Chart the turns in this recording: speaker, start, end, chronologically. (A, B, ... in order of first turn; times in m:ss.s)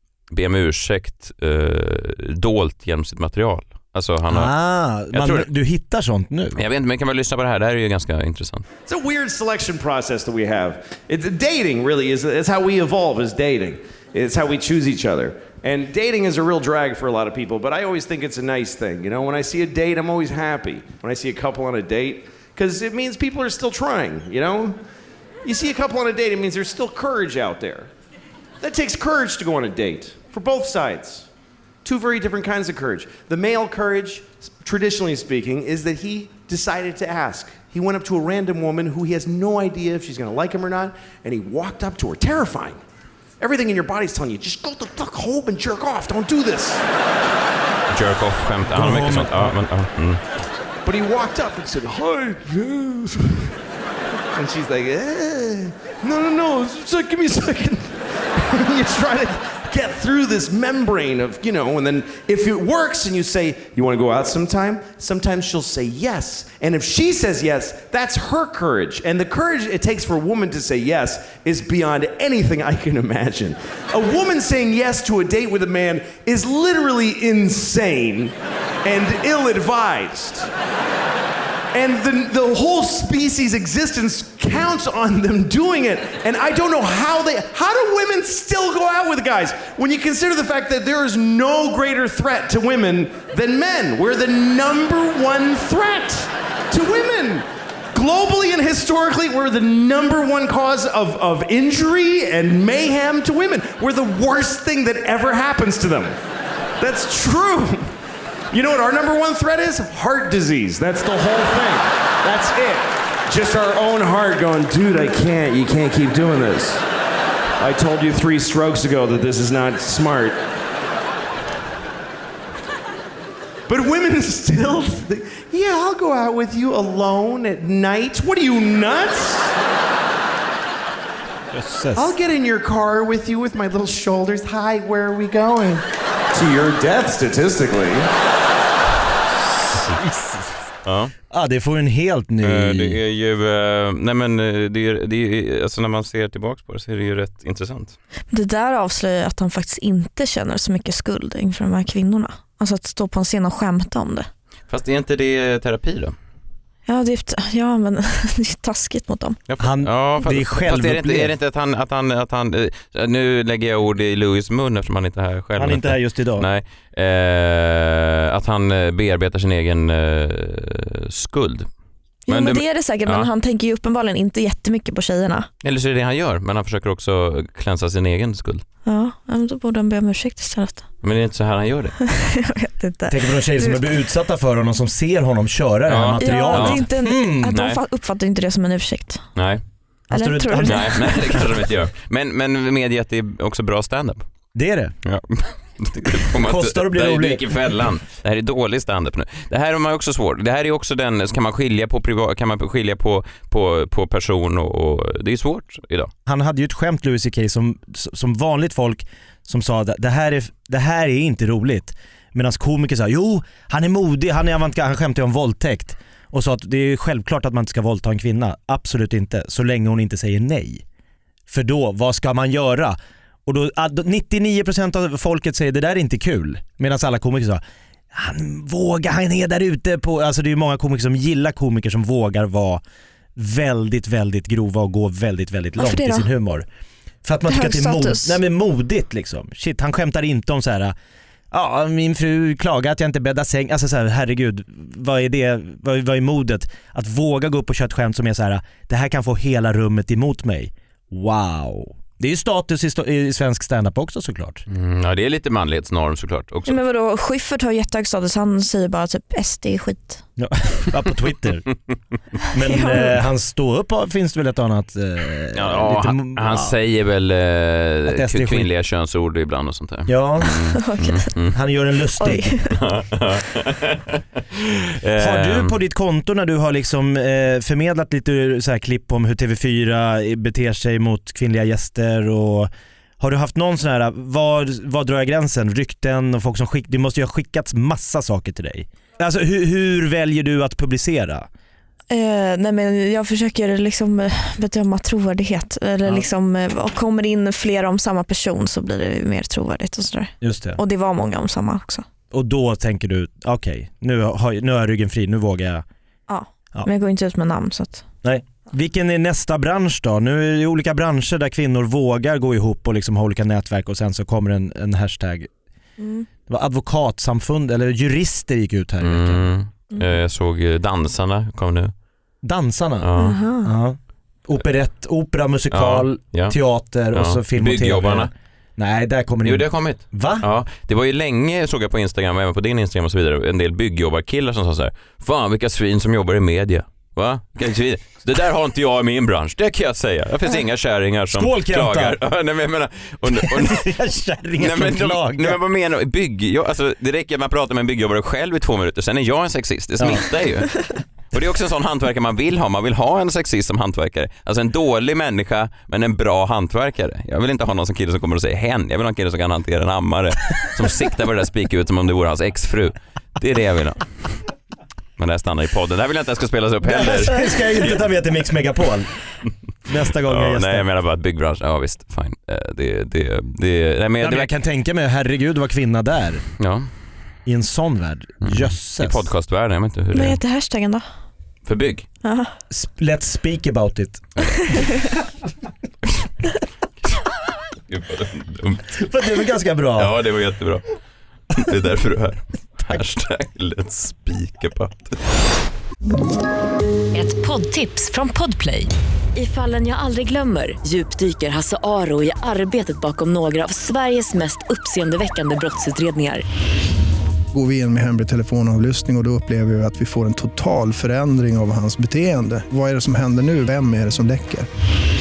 0:00.3-0:04.5 A
0:04.3-0:06.6 B
0:05.1-0:05.5 A
0:06.5-0:08.6 A
0:08.9-0:24.8 C
0:25.4-0:27.9 C
0:28.6-0:31.3 C
0:31.8-0:42.8 C
0:43.4-0:46.8 C
0:47.9-0:50.2 A
0:48.7-0:49.6 B
0:50.8-0:53.5 C
0:54.3-1:20.5 C
1:21.7-1:46.2 C
1:46.8-1:47.9 C
1:48.5-1:56.8 C
1:57.6-2:00.4 C
2:03.7-2:09.5 C
2:11.5-2:12.1 B
2:11.9-2:18.1 C
2:19.9-2:20.6 B
2:20.8-2:21.1 A
2:21.3-2:23.0 B
2:22.4-2:28.0 A
2:28.3-2:34.3 D
2:34.7-2:36.1 A
2:36.9-2:39.4 D
2:39.5-2:51.7 A
2:39.6-2:41.3 B
2:45.6-2:46.5 B
2:52.3-2:55.5 D
2:52.3-2:53.3 A
2:55.6-2:58.6 A
2:58.8-3:00.8 D
3:01.0-3:01.9 A
3:02.1-3:03.8 D
3:03.1-3:07.6 B
3:05.9-3:06.8 A
3:06.2-3:09.2 D
3:07.5-3:07.8 A
3:09.4-3:09.6 A
3:10.1-3:11.2 D
3:10.1-3:11.4 B
3:10.6-3:14.2 A
3:14.5-3:14.9 B
3:15.0-3:26.1 A
3:16.3-3:17.5 B
3:26.2-3:40.8 B
3:41.5-3:47.6 B
3:48.1-3:52.8 B
3:53.4-3:56.6 B
3:55.8-3:56.3 D
3:57.2-4:00.9 B
3:57.5-3:58.4 D
4:01.5-4:14.6 B
4:14.7-4:16.8 A
4:16.7-4:20.2 D
4:20.4-4:21.7 B
4:22.5-4:26.7 B
4:22.6-4:23.2 D
4:25.5-4:31.6 A
4:28.1-4:28.7 B
4:30.1-4:30.5 B
4:30.8-4:31.3 D
4:31.5-4:32.6 B
4:32.2-4:32.7 D
4:32.7-4:35.7 A
4:35.2-4:51.5 B
4:52.1-5:02.0 D
5:00.4-5:00.8 B
5:02.3-5:05.8 B
5:06.3-5:08.0 D
5:08.2-5:15.5 B
5:16.0-5:16.3 D
5:16.5-5:19.5 B
5:19.0-5:21.9 A
5:22.4-5:30.5 B
5:23.0-5:23.4 A
5:23.2-5:23.7 D
5:25.7-5:26.6 A
5:27.1-5:28.3 A
5:29.4-5:43.9 A
5:41.3-5:42.2 B
5:43.3-5:45.6 B
5:44.6-5:50.7 A
5:51.3-6:04.3 A
6:05.2-6:07.9 A
6:06.8-6:09.1 B
6:09.8-6:10.9 B
6:10.2-6:14.5 A
6:14.2-6:16.4 B
6:16.6-6:16.9 A
6:17.4-6:19.3 B
6:18.4-6:20.4 A
6:20.1-6:21.0 D
6:21.6-6:22.0 A
6:22.2-6:22.5 D
6:22.7-6:24.8 B
6:27.9-6:29.0 A
6:28.9-6:30.1 B
6:30.0-6:30.8 A
6:31.5-6:35.2 A
6:37.1-6:46.4 E
6:47.5-6:54.7 F